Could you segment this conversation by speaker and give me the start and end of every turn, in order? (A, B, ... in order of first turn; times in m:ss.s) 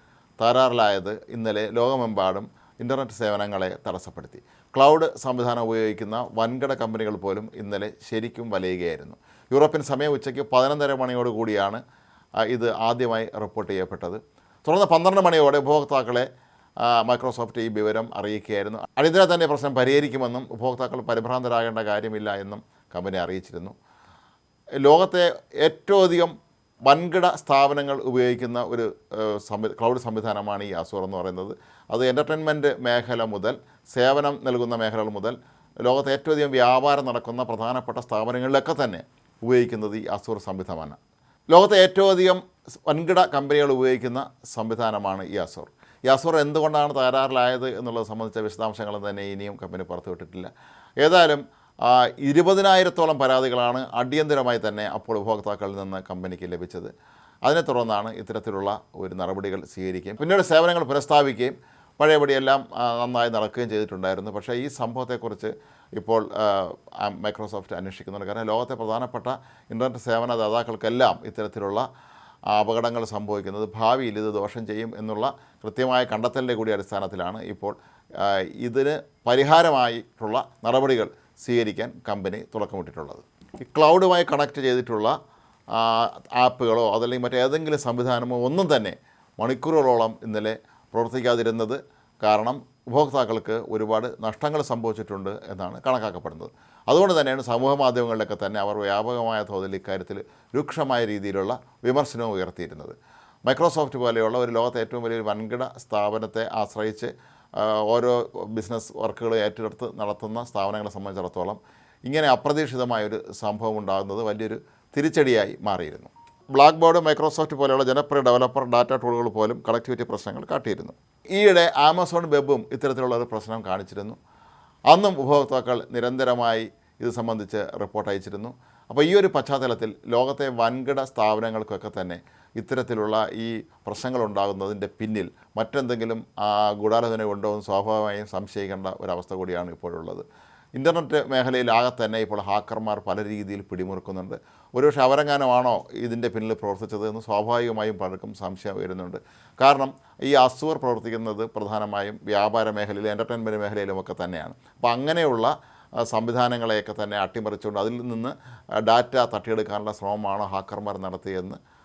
0:00.4-0:11.8 A
0:12.4-0:16.3 A
0:16.8-0:23.7 A
0:24.8-0:26.3 A
0:26.8-0:41.0 A
0:41.5-0:56.9 A
0:57.4-1:11.8 A
1:12.5-1:25.1 A
1:25.7-1:43.0 A
1:43.5-2:04.2 A
2:04.9-2:20.2 A
2:20.8-2:35.5 A
2:36.0-2:38.3 A
2:38.8-2:41.6 A